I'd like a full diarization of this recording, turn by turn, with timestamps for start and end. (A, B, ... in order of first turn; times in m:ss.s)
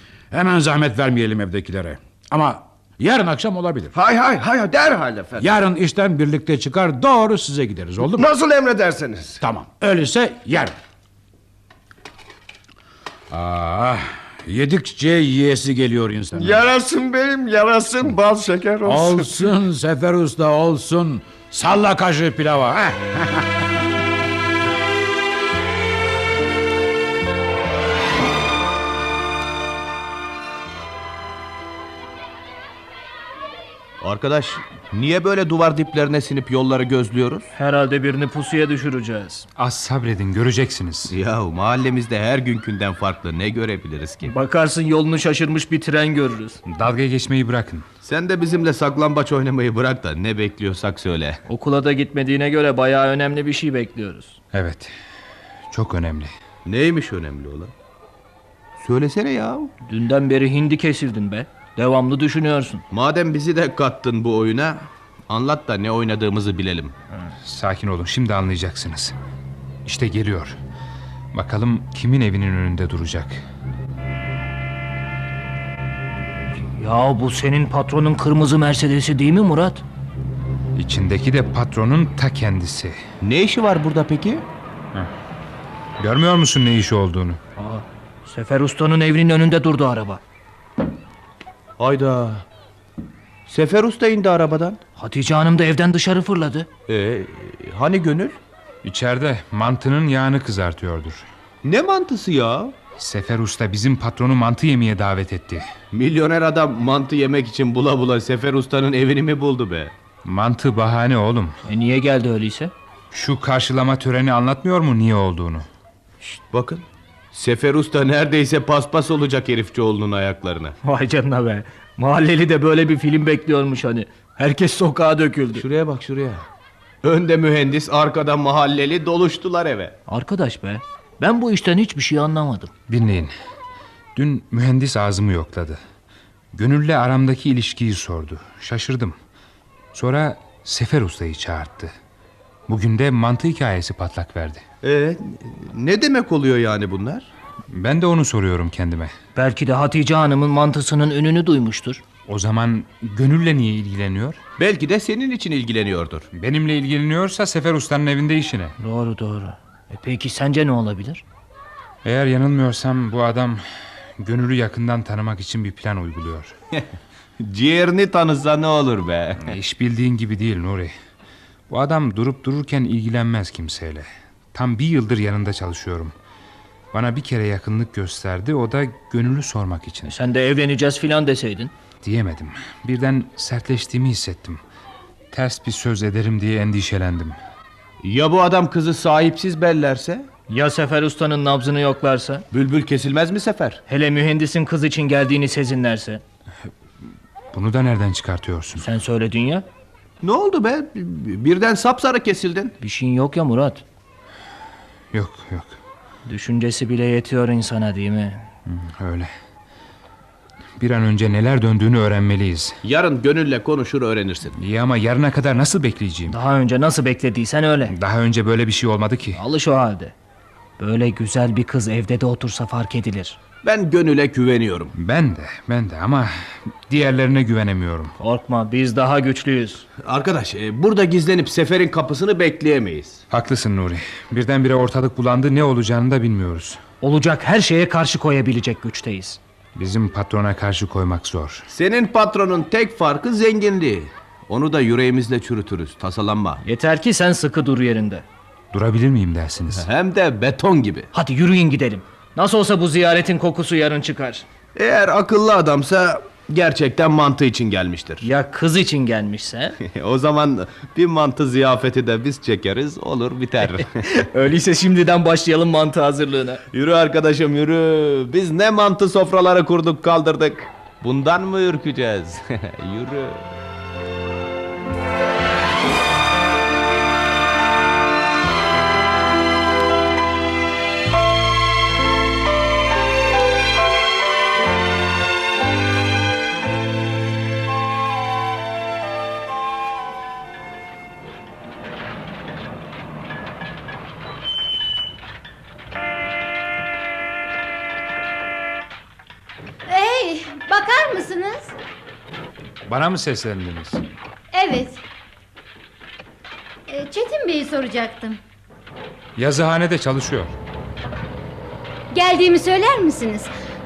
0:00.3-0:03.9 A
0:03.9-0:05.5 B
0:05.4-0:08.3 A
0:08.1-0:09.4 B
0:09.4-0:10.8 A
0:13.3-0:16.6 A
0:16.4-0:19.3 B
0:18.8-0:23.8 A
0:34.0-0:37.5 C
0:37.5-0:39.5 D
0:39.6-0:41.1 E
0:41.1-0:44.3 C
0:44.2-0:46.6 D
0:46.6-0:47.8 E
0:48.0-0:51.4 C
0:51.5-0:54.4 D
0:54.5-0:54.9 E
0:55.7-0:56.3 E
0:56.6-0:57.7 C
0:58.8-0:59.7 C
0:59.8-1:02.8 D
1:02.9-1:06.9 C
1:07.4-1:09.1 E
1:09.8-1:10.6 E
1:11.3-1:13.4 E
1:16.8-1:19.8 D
1:20.8-1:23.0 E
1:23.2-1:24.4 C
1:26.0-1:27.4 E
1:27.6-1:30.2 D
1:31.8-1:32.4 C
1:33.5-1:34.8 C
1:35.0-1:36.7 D
1:36.9-1:38.4 C
1:38.8-1:41.2 E
1:41.6-1:42.7 C
1:43.0-1:45.7 E
1:45.9-1:49.9 C
1:50.2-1:51.6 E
1:51.6-1:52.7 D
1:53.1-1:55.6 E
1:56.2-2:00.8 C
2:00.8-2:05.6 D
2:05.5-2:06.4 C
2:07.0-2:10.0 C
2:10.1-2:12.7 D
2:12.9-2:13.3 E
2:14.1-2:15.8 E
2:16.5-2:19.2 E
2:19.9-2:21.9 E
2:22.7-2:24.6 E
2:24.8-2:27.3 C
2:27.7-2:29.1 E
2:29.3-2:32.0 D
2:32.2-2:34.4 E
2:34.6-2:36.3 C
2:36.3-2:38.7 E
2:38.8-2:41.2 D
2:42.0-2:43.6 E
2:44.2-2:46.5 E
2:47.4-2:49.6 C
2:49.4-2:50.9 E
2:51.7-2:56.1 E
2:56.9-3:00.1 E
3:00.1-3:01.7 D
3:02.0-3:04.6 E
3:05.3-3:07.4 E
3:08.0-3:10.3 C
3:10.5-3:12.4 D
3:12.5-3:13.8 C
3:13.9-3:16.2 D
3:17.5-3:18.9 E
3:18.8-3:19.6 D
3:20.2-3:22.7 C
3:22.8-3:23.8 D
3:25.1-3:25.7 E
3:26.3-3:28.4 D
3:28.7-3:29.3 E
3:30.8-3:32.8 E
3:32.8-3:34.6 C
3:34.6-3:36.4 E
3:36.3-3:37.9 D
3:37.9-3:39.4 E
3:39.3-3:40.1 D
3:40.8-3:43.4 D
3:43.6-3:44.9 C
3:45.0-3:46.3 E
3:46.9-3:48.1 E
3:48.2-3:49.8 D
3:50.0-3:53.2 C
3:53.3-3:56.8 E
3:57.0-3:59.4 D
3:59.8-4:01.6 E
4:01.7-4:06.6 C
4:06.6-4:08.2 D
4:08.7-4:09.9 E
4:09.7-4:11.1 C
4:11.1-4:14.5 D
4:14.7-4:18.2 C
4:18.2-4:19.8 D
4:19.8-4:24.0 C
4:24.0-4:26.6 D
4:26.7-4:33.4 C
4:59.9-5:01.7 F
5:02.8-5:04.0 E
5:04.5-5:05.0 F
5:06.9-5:08.4 F
5:09.4-5:10.5 E
5:12.1-5:13.5 F